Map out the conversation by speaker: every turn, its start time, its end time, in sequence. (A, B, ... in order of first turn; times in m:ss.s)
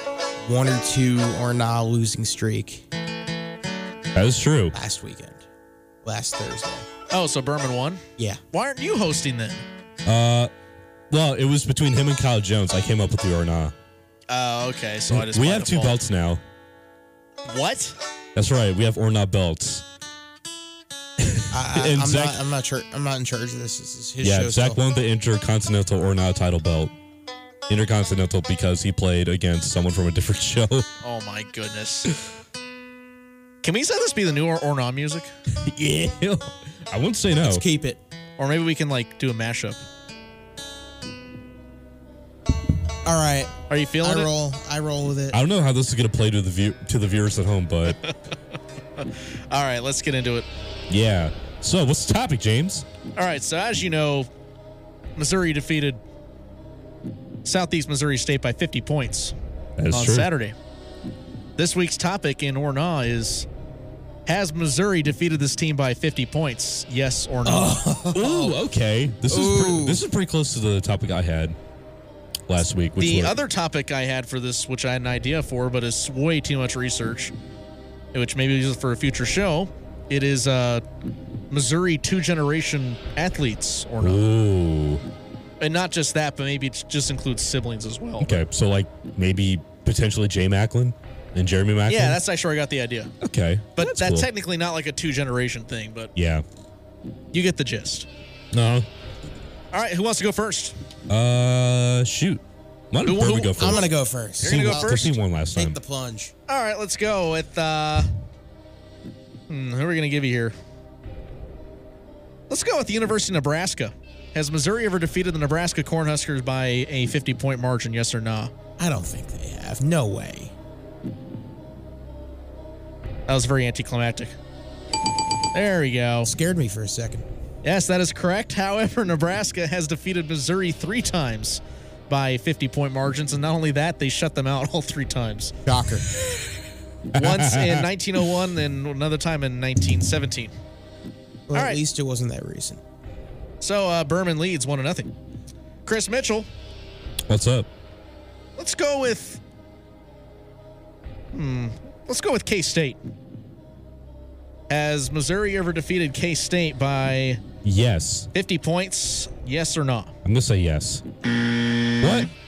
0:00.4-0:02.8 A
0:04.1-0:04.7 B
0:04.7-0:05.4 A
0:06.0-0:06.9 A
0:07.1-0:09.6 C
0:10.0-0:10.5 B
0:11.1-0:13.7 B
0:14.3-0:16.0 C
0:15.1-0:16.4 B
0:17.4-0:18.0 C
0:18.3-0:19.8 B
0:21.2-0:22.4 B
0:21.5-0:24.8 A
0:24.2-0:26.9 B
0:27.7-0:30.9 B
0:31.0-0:32.1 C
0:33.6-0:35.3 C
0:35.6-0:37.6 B
0:37.4-0:38.0 A
0:38.4-0:39.8 C
0:43.0-0:45.4 A
0:43.7-0:44.3 C
0:45.3-0:48.0 B
0:47.9-0:48.1 C
0:49.0-0:50.5 C
0:50.9-0:52.8 B
0:53.2-0:54.3 C
0:55.2-0:56.0 C
0:57.4-0:59.3 C
0:59.8-1:00.3 B
0:59.9-1:00.5 C
1:01.6-1:03.4 C
1:04.2-1:07.8 C
1:07.4-1:08.6 A
1:08.1-1:11.6 B
1:09.3-1:10.0 A
1:12.5-1:13.4 B
1:13.0-1:17.3 C
1:18.1-1:20.8 C
1:21.5-1:24.2 C
1:24.0-1:25.0 B
1:25.6-1:28.4 C
1:28.2-1:32.2 B
1:31.9-1:33.1 C
1:33.2-1:34.3 B
1:33.8-1:36.1 C
1:36.1-1:36.4 B
1:37.3-1:38.1 C
1:38.5-1:38.9 B
1:39.7-1:40.7 C
1:41.1-1:45.8 B
1:43.0-1:43.9 C
1:43.6-1:46.3 A
1:44.4-1:45.2 C
1:46.5-1:48.1 C
1:49.5-1:50.5 C
1:52.5-1:58.5 C
1:58.8-2:00.5 A
2:03.3-2:04.3 C
2:05.5-2:06.3 C
2:06.2-2:07.2 A
2:07.6-2:15.5 C
2:15.6-2:16.1 A
2:17.1-2:17.8 B
2:17.1-2:20.5 C
2:21.5-2:22.8 A
2:21.5-2:21.8 C
2:23.6-2:25.1 C
2:25.8-2:26.5 C
2:27.3-2:27.7 B
2:28.6-2:29.4 C
2:31.3-2:33.0 C
2:34.7-2:37.4 C
2:37.6-2:38.3 B
2:38.3-2:40.1 C
2:40.2-2:41.0 B
2:42.0-2:42.3 B